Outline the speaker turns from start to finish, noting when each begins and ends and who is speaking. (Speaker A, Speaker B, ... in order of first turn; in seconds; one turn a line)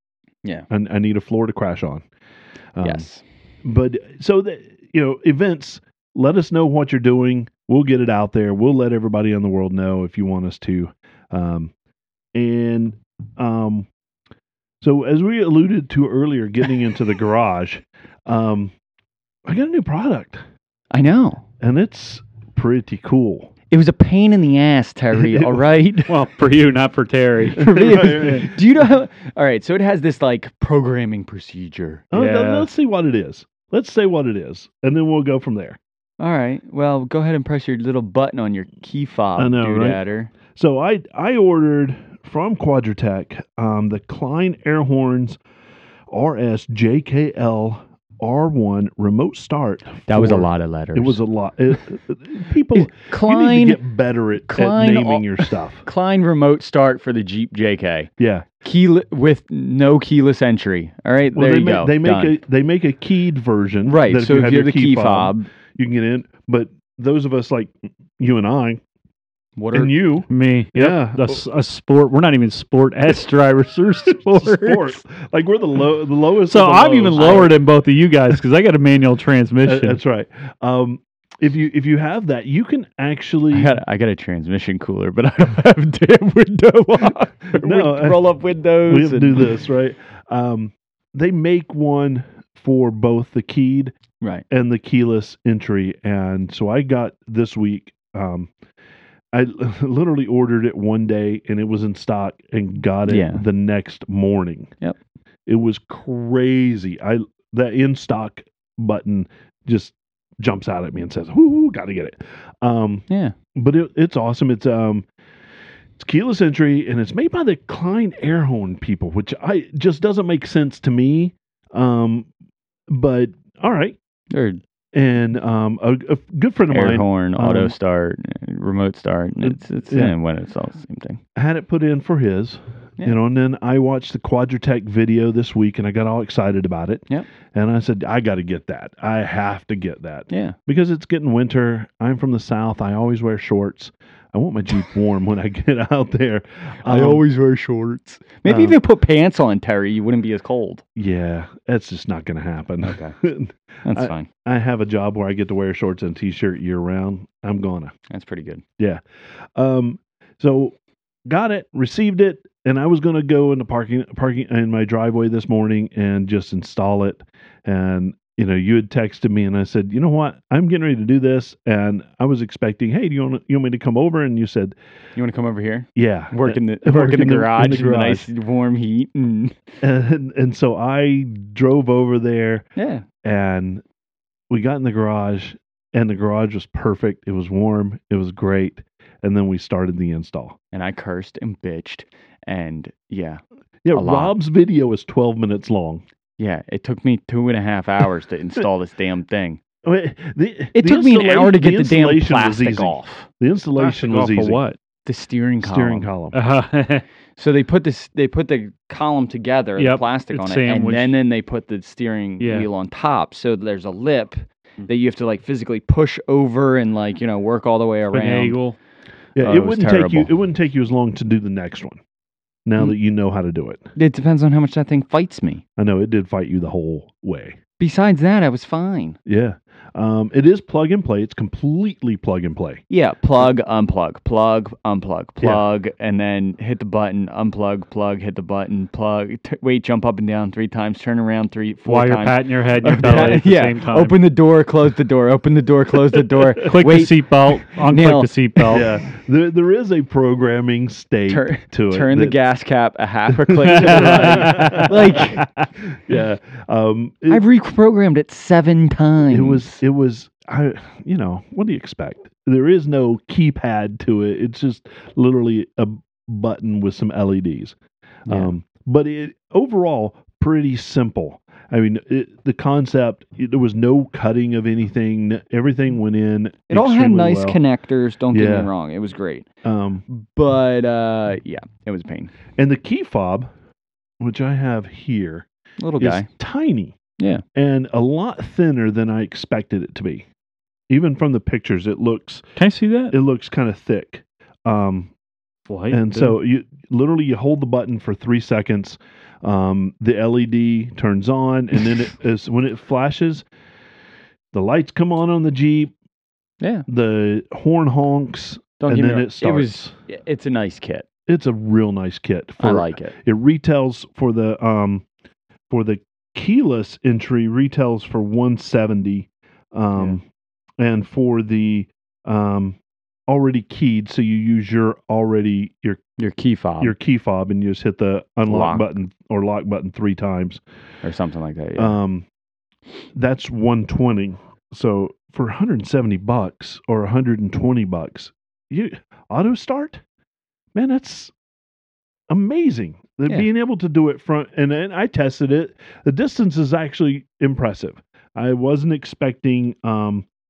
Speaker A: 0.7-2.0
Speaker A: 2.8-3.1
Speaker B: 2.8-3.2
Speaker A: 3.6-11.7
Speaker A: 12.3-13.9
Speaker A: 14.8-18.7
Speaker A: 19.5-20.4
Speaker B: 20.9-21.4
Speaker A: 21.6-23.5
Speaker B: 23.7-26.1
Speaker A: 25.1-25.6
Speaker C: 26.1-28.5
Speaker B: 27.6-32.1
Speaker A: 27.6-28.8
Speaker A: 32.1-35.8
Speaker C: 32.1-32.7
Speaker B: 36.2-40.3
Speaker A: 39.4-45.4
Speaker A: 46.1-55.9
Speaker B: 50.1-51.2
Speaker B: 52.7-53.8
Speaker B: 54.5-58.1
Speaker A: 58.2-58.5
Speaker B: 58.6-62.4
Speaker A: 61.4-68.8
Speaker B: 63.9-65.5
Speaker B: 69.5-69.9
Speaker A: 69.7-71.4
Speaker C: 70.3-75.0
Speaker A: 74.1-77.6
Speaker C: 76.5-80.0
Speaker B: 77.1-77.5
Speaker A: 79.6-83.8
Speaker B: 83.5-89.6
Speaker A: 87.5-88.2
Speaker A: 88.9-93.9
Speaker A: 94.5-98.5
Speaker A: 99.3-104.8
Speaker B: 103.1-103.4
Speaker A: 105.5-115.0
Speaker B: 113.1-113.3
Speaker A: 116.0-122.3
Speaker A: 122.9-124.0
Speaker B: 124.3-124.6
Speaker A: 124.9-127.7
Speaker B: 126.7-131.2
Speaker A: 129.4-130.2
Speaker A: 131.3-147.2
Speaker B: 140.3-140.6
Speaker B: 146.8-150.8
Speaker A: 148.4-148.8
Speaker A: 151.0-157.9
Speaker B: 152.8-153.2
Speaker B: 153.8-154.3
Speaker B: 158.1-158.6
Speaker A: 158.8-160.8
Speaker A: 161.2-174.8
Speaker B: 175.1-179.7
Speaker A: 176.0-178.3
Speaker A: 179.8-182.7
Speaker B: 182.8-183.1
Speaker A: 183.2-183.8
Speaker A: 184.5-190.6
Speaker B: 190.7-194.4
Speaker A: 193.8-196.0
Speaker B: 196.4-199.6
Speaker A: 199.8-204.6
Speaker B: 200.7-203.3
Speaker C: 203.8-204.8
Speaker B: 205.0-206.1
Speaker A: 205.6-206.4
Speaker C: 206.3-207.0
Speaker B: 207.4-218.6
Speaker C: 209.8-211.1
Speaker C: 212.4-212.7
Speaker C: 218.1-218.8
Speaker A: 219.4-222.0
Speaker B: 219.4-220.3
Speaker A: 222.7-223.8
Speaker B: 224.0-225.6
Speaker A: 225.8-227.6
Speaker B: 227.8-229.2
Speaker A: 229.2-232.8
Speaker B: 232.9-247.2
Speaker C: 241.9-244.2
Speaker C: 246.6-248.9
Speaker B: 247.7-248.8
Speaker A: 248.7-252.4
Speaker B: 251.3-255.5
Speaker A: 253.4-257.4
Speaker C: 253.8-255.6
Speaker B: 257.3-259.8
Speaker A: 259.3-267.8
Speaker A: 268.3-277.6
Speaker B: 276.7-279.5
Speaker A: 278.3-278.7
Speaker A: 279.6-280.0
Speaker B: 280.1-282.3
Speaker A: 282.5-283.5
Speaker A: 284.2-285.5
Speaker B: 285.8-286.3
Speaker A: 286.0-286.9
Speaker B: 287.2-287.4
Speaker A: 287.5-290.2
Speaker A: 290.9-292.4
Speaker C: 292.6-293.1
Speaker A: 293.1-295.1
Speaker C: 295.7-296.4
Speaker A: 295.9-303.5
Speaker A: 304.5-305.9
Speaker B: 306.6-306.9
Speaker A: 306.9-309.9
Speaker B: 308.8-311.1
Speaker A: 311.3-315.1
Speaker B: 312.6-313.2
Speaker A: 315.7-320.2
Speaker A: 320.8-322.8
Speaker A: 323.3-326.0
Speaker B: 326.2-326.9
Speaker A: 326.8-330.6
Speaker B: 328.5-328.9
Speaker B: 331.0-332.0
Speaker A: 331.8-332.2
Speaker A: 333.1-340.0
Speaker A: 340.8-341.3
Speaker A: 342.3-350.2